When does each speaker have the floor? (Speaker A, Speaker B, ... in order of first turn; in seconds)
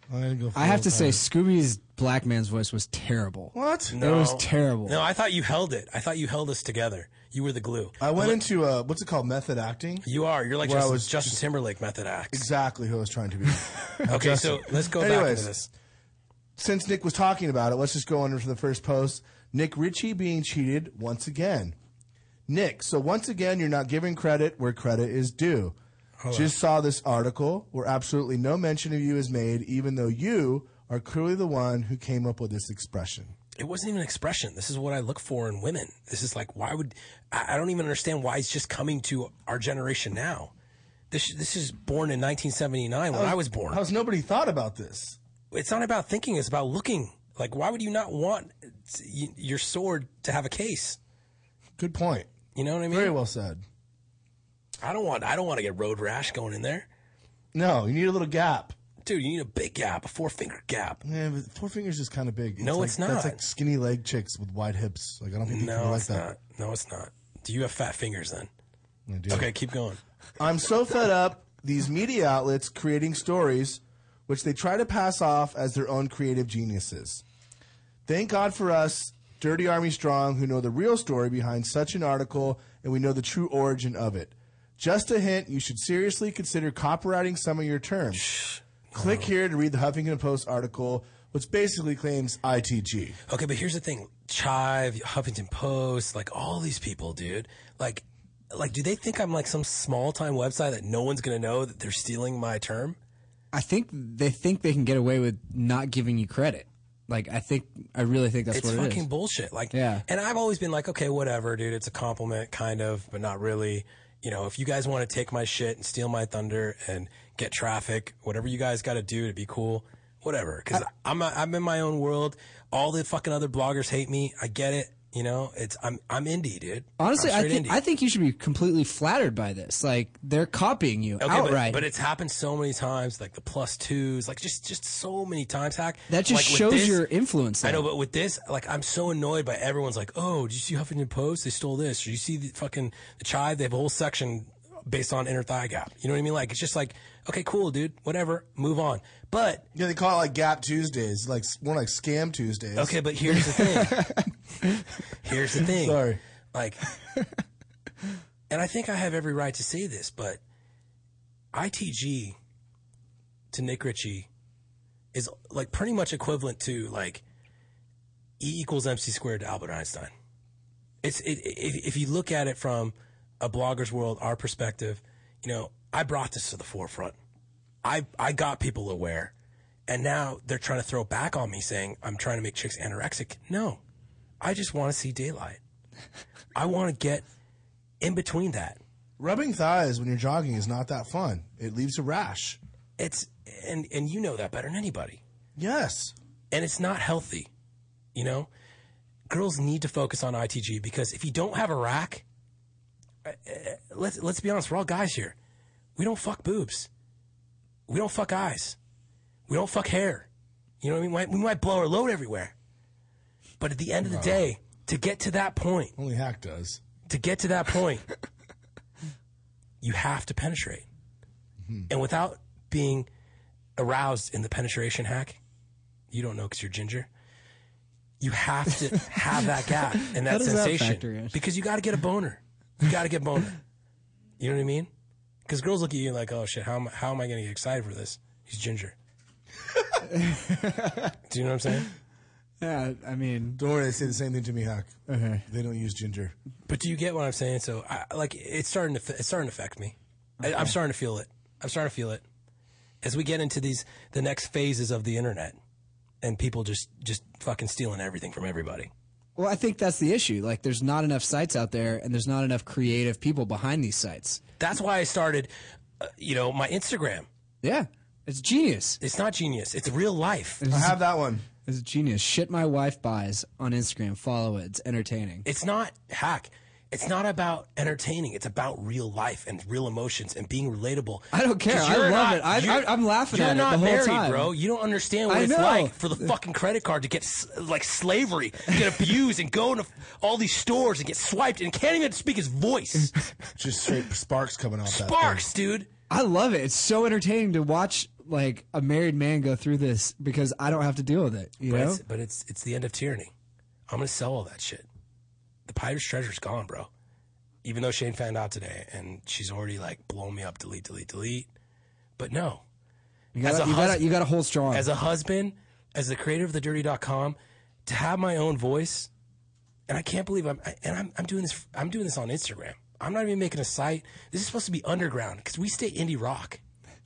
Speaker A: 0.1-1.2, 3.5-4.0, 8.0-10.1, 10.6-11.4, 12.3-15.5, 16.6-21.8, 22.5-25.8, 26.3-33.3, 43.1-45.2, 51.8-52.3, 52.9-53.6, 57.5-58.7, 61.0-66.3, 69.1-69.5, 70.4-77.2, 78.0-88.3, 88.9-93.2, 149.7-153.0, 155.7-156.2, 189.2-192.6, 195.6-196.2, 214.0-214.5, 215.9-216.8, 221.6-221.9, 243.6-246.3, 270.7-271.4, 293.6-295.4
Speaker B: 0.6-5.0, 103.5-109.1, 109.7-110.0, 127.0-131.8, 136.1-137.9, 153.6-154.3, 229.9-231.4, 240.1-241.1, 242.6-243.6, 245.1-245.4, 250.4-250.7, 259.4-264.4, 267.6-269.0, 270.6-271.0, 271.6-275.4, 281.3-284.5, 285.3-286.3, 288.7-289.1, 296.1-302.0, 313.3-314.9
Speaker C: 3.9-8.4, 10.0-12.5, 14.1-15.7, 26.2-26.5, 33.5-40.5, 41.1-43.8, 45.5-51.0, 52.5-53.1, 54.8-56.9, 59.0-61.0, 62.6-63.4, 65.5-68.5, 69.3-70.0, 88.2-89.3, 93.3-103.0, 108.5-127.8, 131.2-137.0, 137.6-149.6, 152.8-154.1, 155.2-156.8, 158.5-160.4, 161.5-162.4, 163.5-164.3, 165.1-167.2, 168.4-170.1, 171.0-177.2, 177.8-179.3, 179.9-183.8, 184.4-185.6, 186.5-187.2, 188.0-188.8, 193.0-195.2, 196.5-197.5, 198.1-198.5, 199.3-202.2, 203.2-205.3, 205.9-206.9, 207.9-208.8, 209.5-210.3, 210.8-212.5, 213.6-215.9, 217.1-218.1, 219.8-220.8, 221.9-223.1, 223.8-225.4, 226.1-227.1, 228.2-233.6, 234.4-234.9, 235.4-238.9, 241.3-241.9, 246.7-252.2, 253.0-255.6, 256.2-258.9, 264.6-267.3, 269.0-270.6, 275.4-293.1, 294.9-295.9, 301.6-303.3, 303.9-304.9, 305.7-306.9, 307.6-311.5, 312.2-312.6, 313.4-314.1, 314.7-319.1, 319.9-326.6